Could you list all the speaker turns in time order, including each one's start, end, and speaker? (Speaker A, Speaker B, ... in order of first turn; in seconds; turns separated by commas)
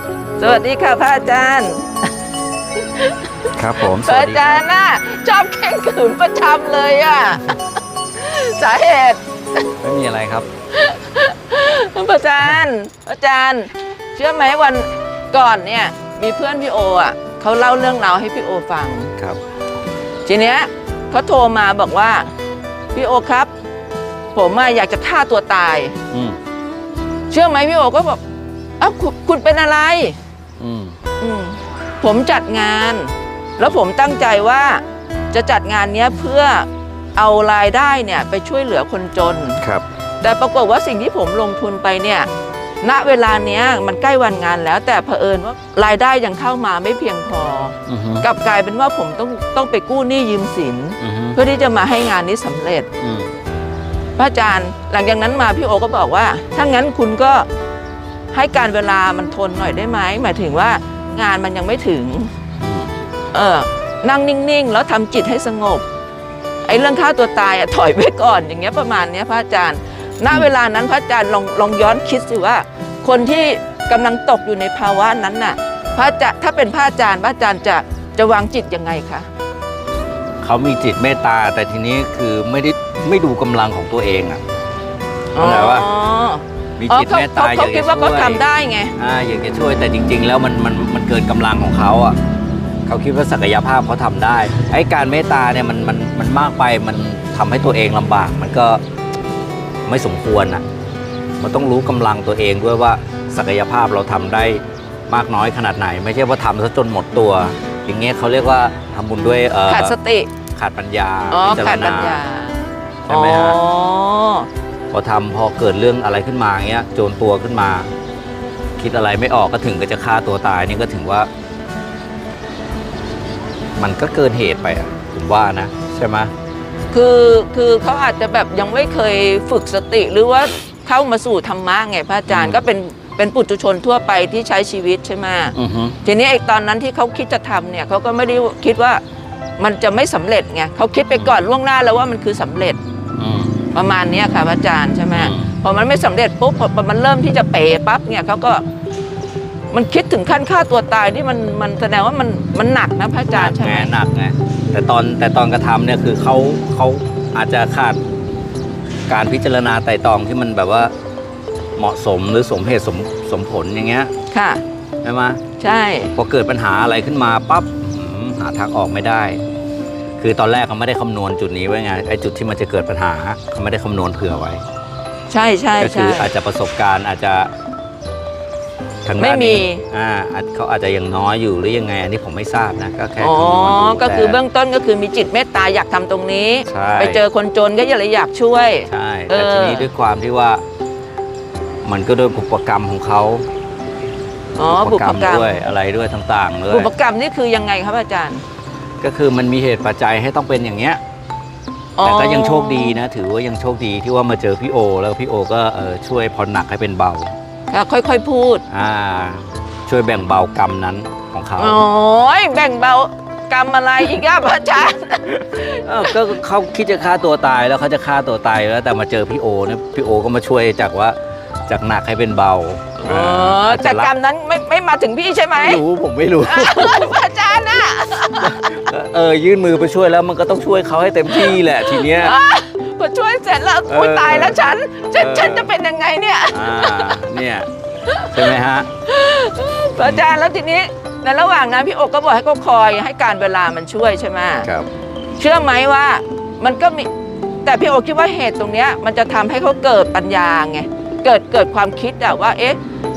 Speaker A: 0.4-2.1, Speaker A: 2.9-7.6, Speaker B: 3.5-4.6, Speaker A: 8.2-9.6, Speaker B: 9.8-10.5, Speaker A: 10.7-19.1, Speaker A: 20.3-22.3, Speaker A: 22.9-23.5, Speaker A: 24.4-26.0, Speaker B: 26.1-26.4, Speaker A: 27.3-28.2, Speaker A: 28.8-30.2, Speaker B: 30.6-31.0, Speaker A: 31.2-39.6, Speaker B: 39.6-39.9, Speaker A: 40.2-42.3, Speaker A: 42.8-52.9, Speaker B: 47.9-48.3, Speaker B: 51.0-51.4, Speaker B: 53.0-53.3, Speaker A: 54.2-57.5, Speaker A: 58.3-62.3, Speaker B: 62.6-63.0, Speaker A: 63.3-65.8, Speaker A: 66.7-79.3, Speaker B: 80.4-84.4, Speaker A: 85.3-89.0, Speaker B: 85.4-85.9, Speaker B: 86.8-88.4, Speaker B: 89.0-92.2, Speaker B: 92.9-98.8, Speaker B: 99.9-100.6, Speaker B: 101.4-109.9, Speaker A: 109.7-110.3, Speaker B: 110.5-112.2, Speaker A: 111.3-114.5, Speaker B: 113.1-113.6, Speaker B: 114.9-117.9, Speaker B: 118.8-121.3, Speaker B: 123.8-126.3, Speaker A: 126.9-139.0, Speaker B: 132.3-132.6, Speaker B: 135.6-136.0, Speaker A: 139.6-142.8, Speaker B: 143.2-143.6, Speaker A: 143.7-148.6, Speaker B: 145.1-145.5, Speaker A: 149.7-153.9, Speaker B: 153.3-158.0, Speaker B: 159.1-160.9, Speaker B: 161.8-164.1, Speaker A: 164.3-164.6, Speaker B: 165.0-165.4, Speaker A: 165.6-166.1, Speaker B: 166.2-169.4, Speaker B: 170.2-174.6, Speaker A: 175.3-176.3, Speaker B: 175.8-177.5, Speaker B: 179.1-184.4, Speaker A: 179.2-179.8, Speaker A: 183.2-189.9, Speaker B: 186.7-187.2, Speaker B: 188.9-190.6, Speaker B: 191.8-193.5, Speaker A: 194.6-195.7, Speaker B: 194.7-196.9, Speaker A: 196.7-198.4, Speaker B: 199.0-201.0, Speaker A: 202.0-203.0, Speaker B: 202.0-207.3, Speaker A: 207.7-208.6, Speaker B: 208.7-211.8, Speaker A: 211.6-216.2, Speaker B: 215.5-224.1, Speaker A: 223.0-225.8, Speaker B: 225.6-227.2, Speaker A: 226.4-228.6, Speaker B: 228.4-232.4, Speaker A: 231.3-237.2, Speaker B: 233.9-235.7, Speaker B: 236.5-237.7, Speaker A: 238.1-238.5, Speaker B: 238.3-238.9, Speaker A: 239.1-244.7, Speaker A: 245.4-247.1, Speaker A: 247.7-252.8